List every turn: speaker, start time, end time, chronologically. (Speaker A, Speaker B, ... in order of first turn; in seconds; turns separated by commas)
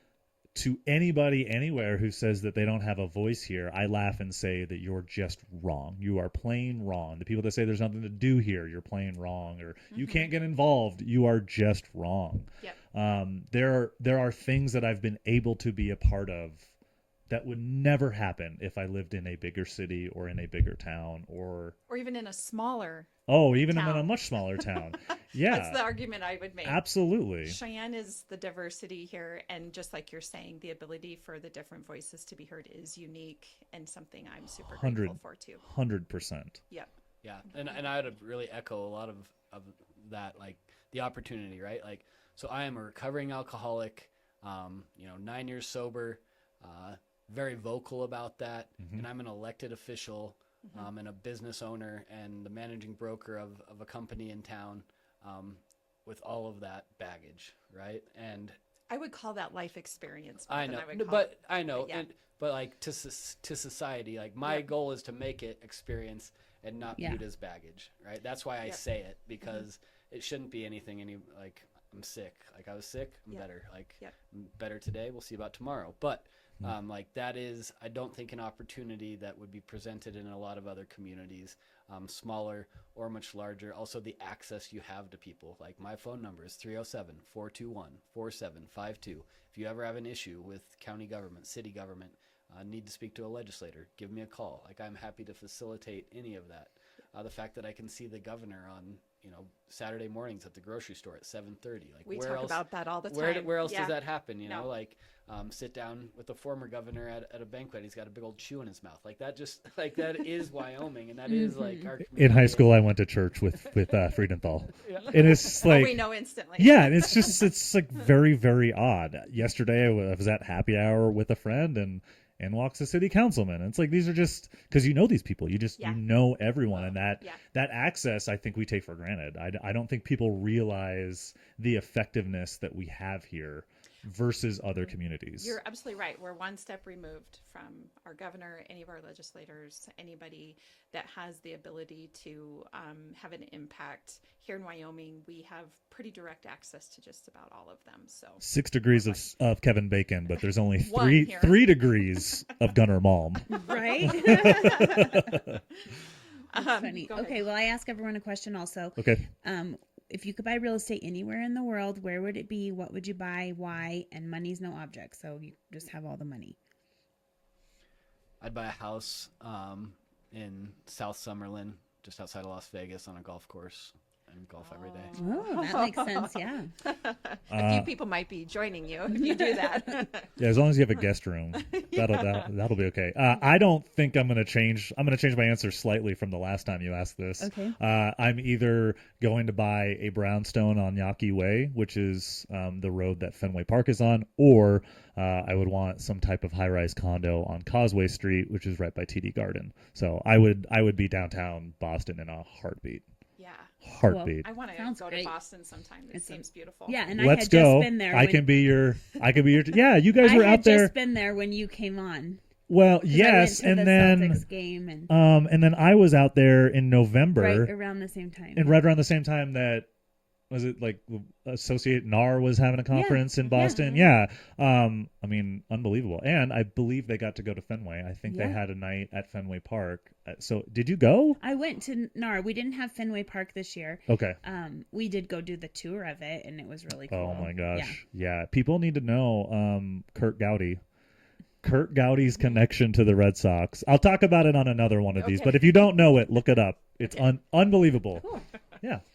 Speaker A: 0.6-16.7, Speaker B: 9.9-10.3, Speaker A: 17.3-21.8, Speaker B: 21.9-23.1, Speaker A: 23.3-25.9, Speaker B: 23.7-35.6, Speaker A: 26.6-27.6, Speaker A: 34.7-36.6, Speaker C: 37.2-58.6, Speaker A: 48.8-49.1, Speaker B: 50.6-50.9, Speaker B: 58.9-62.1, Speaker C: 60.5-112.8, Speaker D: 67.0-67.2, Speaker B: 102.0-104.7, Speaker D: 111.3-111.9, Speaker A: 112.2-135.6, Speaker C: 114.8-115.6, Speaker B: 115.0-117.5, Speaker B: 125.8-126.0, Speaker B: 126.7-127.4, Speaker B: 134.9-149.2, Speaker A: 148.4-155.6, Speaker B: 150.8-152.3, Speaker D: 153.5-155.2, Speaker B: 153.7-155.3, Speaker B: 156.5-157.5, Speaker D: 156.5-166.6, Speaker A: 159.0-159.3, Speaker C: 168.4-175.2, Speaker B: 174.6-180.3, Speaker D: 175.2-176.7, Speaker A: 177.5-177.9, Speaker A: 180.4-203.0, Speaker B: 181.5-182.5, Speaker D: 187.4-187.8, Speaker B: 203.4-203.7, Speaker A: 203.8-204.5, Speaker D: 204.0-205.4, Speaker B: 204.4-207.0, Speaker D: 206.1-208.6, Speaker A: 207.2-210.9, Speaker D: 210.2-212.4, Speaker A: 212.7-214.4, Speaker D: 213.1-215.1, Speaker A: 215.1-217.7, Speaker D: 217.4-218.8, Speaker A: 218.6-219.9, Speaker A: 220.5-231.4, Speaker D: 222.9-224.1, Speaker D: 228.3-228.6, Speaker D: 231.4-238.0, Speaker A: 234.1-234.4, Speaker A: 237.1-240.8, Speaker A: 241.6-249.0, Speaker B: 245.2-245.9, Speaker B: 247.0-247.3